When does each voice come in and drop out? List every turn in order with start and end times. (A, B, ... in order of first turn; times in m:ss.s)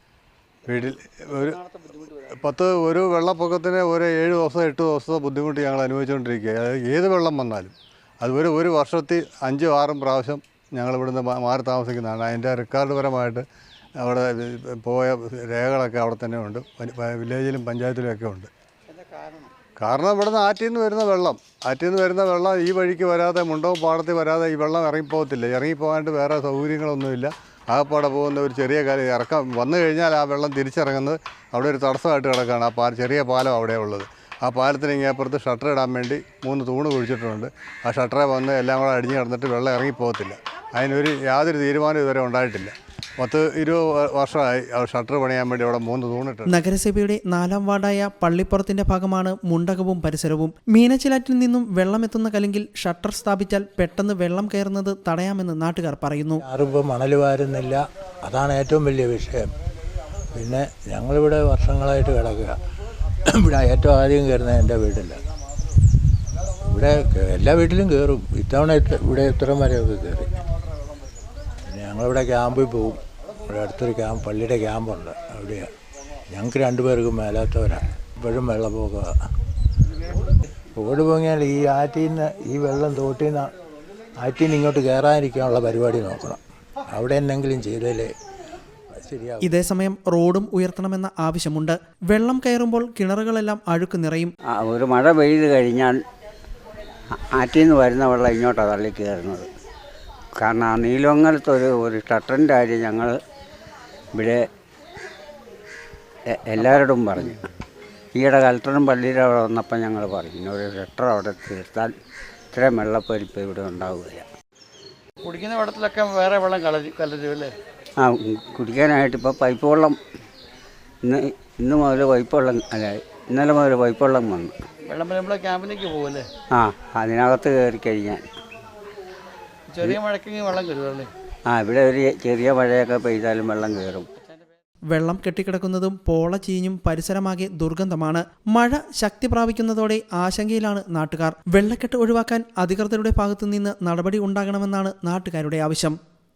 0:00.7-0:01.6 A
0:01.7-0:02.0 B
0:02.3-0:13.4 A
0:14.0-0:18.5 A
0:18.9-0:19.5 B
0:19.8-0:46.6 A
0:46.5-0:56.4 C
0:56.4-0:59.5 D
1:00.3-1:02.6 D
1:03.2-1:05.2 D
1:06.6-1:10.4 D
1:11.7-1:15.7 D
1:16.3-1:19.1 D
1:20.8-1:23.5 D
1:24.2-1:28.1 D
1:28.9-1:29.5 D
1:29.4-1:34.3 C
1:34.5-1:36.0 E
1:37.3-1:39.5 E
1:40.4-1:43.2 E
1:44.1-1:44.4 E
1:46.3-1:47.4 E
1:48.1-1:51.9 E
1:52.5-1:54.3 E
1:55.2-1:57.5 B
1:58.0-2:00.0 E
2:01.0-2:04.5 E
2:04.9-2:06.3 B
2:06.5-2:08.2 E
2:09.7-2:11.1 B
2:11.5-2:14.0 E
2:14.9-2:26.0 C